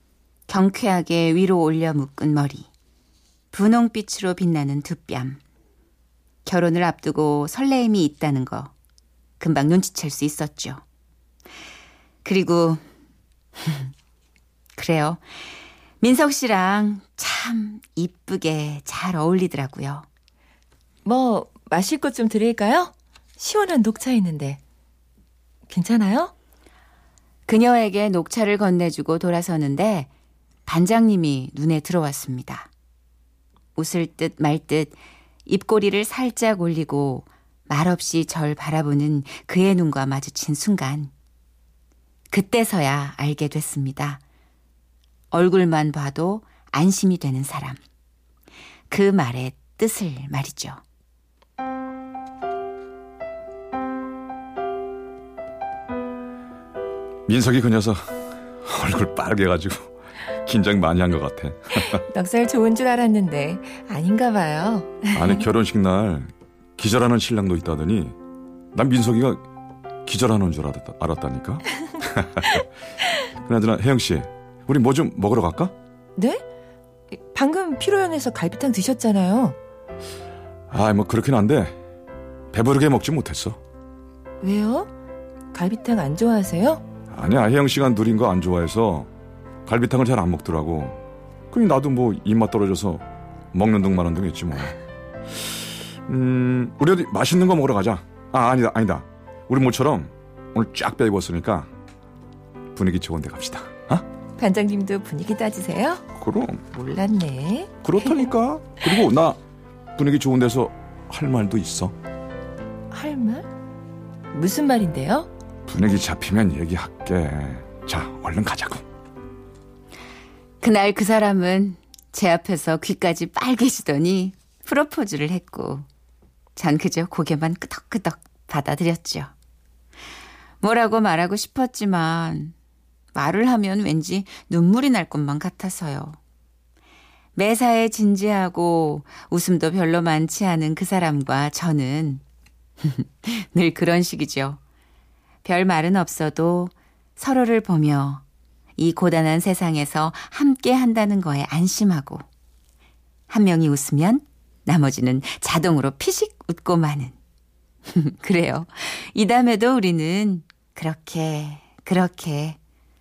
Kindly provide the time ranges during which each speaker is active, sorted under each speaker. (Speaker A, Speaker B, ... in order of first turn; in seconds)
Speaker A: 0.5-2.7, 3.5-5.4, 6.4-8.7, 9.4-10.8, 12.2-12.8, 13.6-13.9, 14.8-15.2, 16.0-20.1, 27.5-30.1, 30.6-32.7, 33.8-35.0, 35.5-41.1, 42.3-44.2, 45.3-47.8, 48.9-50.8, 120.6-125.8, 126.5-129.3, 130.6-132.5, 133.1-136.2, 137.3-142.2, 142.8-144.6, 145.4-148.2, 148.8-152.2, 153.3-157.2, 157.9-162.6
Speaker B: 21.0-24.6, 25.7-26.3, 62.1-65.4, 76.2-76.4, 77.1-79.5, 84.4-84.9, 85.5-86.8, 104.4-106.0, 106.7-108.3, 112.9-113.5, 114.3-115.3
Speaker C: 57.3-59.9, 60.4-62.0, 65.1-68.2, 68.7-69.4, 70.0-72.6, 73.4-75.7, 80.7-81.8, 82.5-83.6, 87.1-89.1, 89.7-91.0, 91.5-94.8, 95.3-101.7, 102.7-104.0, 106.2-106.6, 107.8-109.4, 110.0-111.9, 115.7-118.8